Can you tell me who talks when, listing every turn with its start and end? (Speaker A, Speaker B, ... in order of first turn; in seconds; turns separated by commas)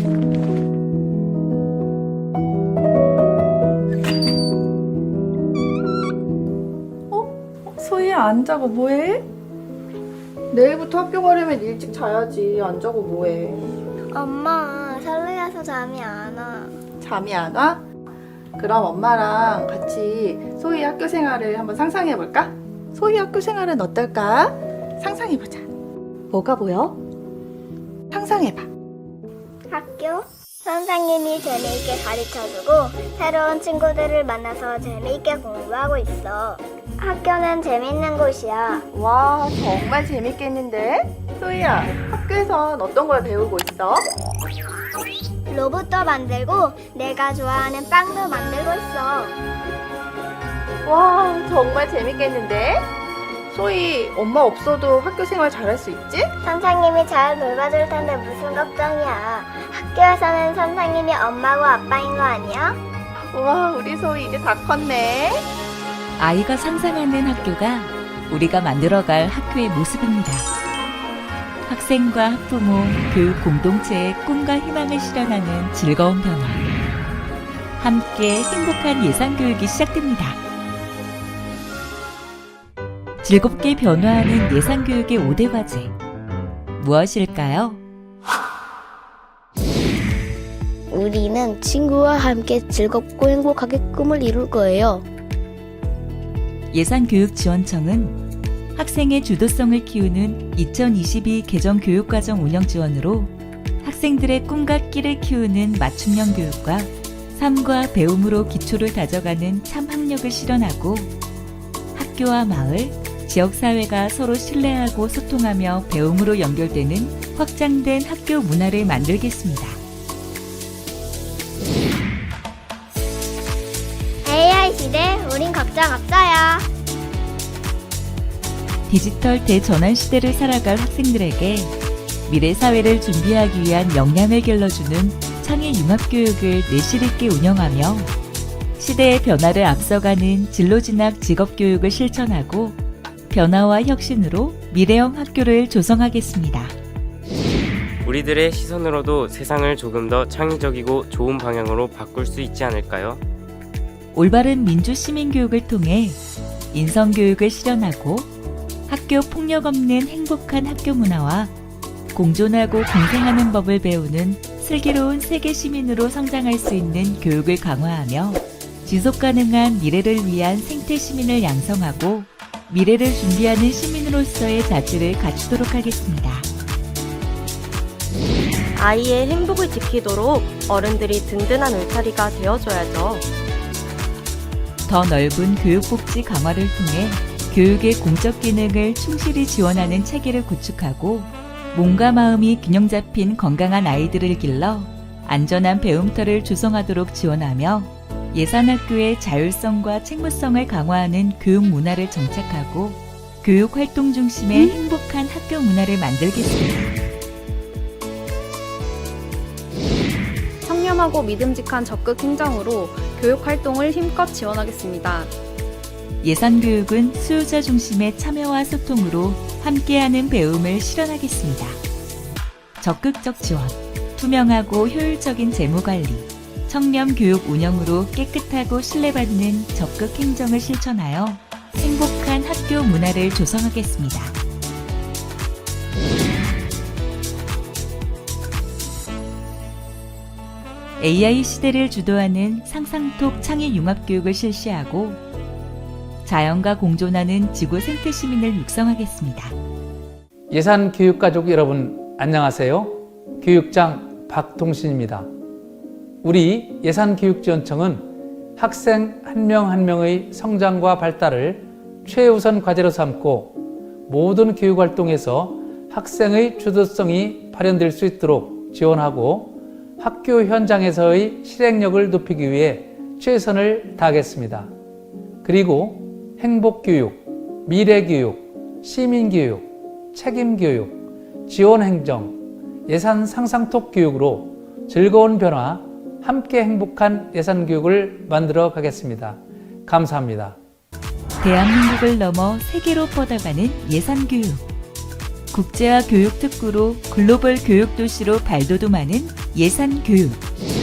Speaker A: 7.1-9.2, Speaker A: 10.5-13.7, Speaker B: 14.1-16.8, Speaker A: 17.0-17.8, Speaker A: 18.6-25.6, Speaker A: 26.3-27.0, Speaker A: 28.1-28.7, Speaker B: 29.7-38.8, Speaker A: 38.9-44.0, Speaker B: 45.5-49.3, Speaker A: 50.9-52.9, Speaker A: 53.5-56.3, Speaker B: 56.4-62.8, Speaker A: 63.3-65.5, Speaker C: 66.2-70.5, Speaker C: 71.7-76.7, Speaker C: 77.8-80.4, Speaker C: 83.2-85.9, Speaker C: 86.8-87.8, Speaker D: 90.9-95.0, Speaker C: 96.7-98.2, Speaker C: 98.7-103.3, Speaker C: 103.8-111.1, Speaker C: 111.9-119.8, Speaker B: 124.2-126.7, Speaker C: 128.9-131.7, Speaker C: 132.3-138.1, Speaker C: 138.8-142.8, Speaker C: 143.3-146.7, Speaker E: 148.0-153.2, Speaker C: 154.1-156.2, Speaker C: 156.7-158.3, Speaker C: 158.9-161.5, Speaker C: 162.1-176.5, Speaker F: 178.8-183.2, Speaker C: 184.8-206.9, Speaker G: 204.5-204.8, Speaker G: 210.6-215.3, Speaker C: 216.2-221.8, Speaker C: 222.8-234.3, Speaker C: 241.0-245.2, Speaker C: 246.2-249.5, Speaker H: 250.5-255.3, Speaker H: 256.2-274.7, Speaker H: 275.4-290.6, Speaker C: 291.4-294.6, Speaker C: 295.5-300.4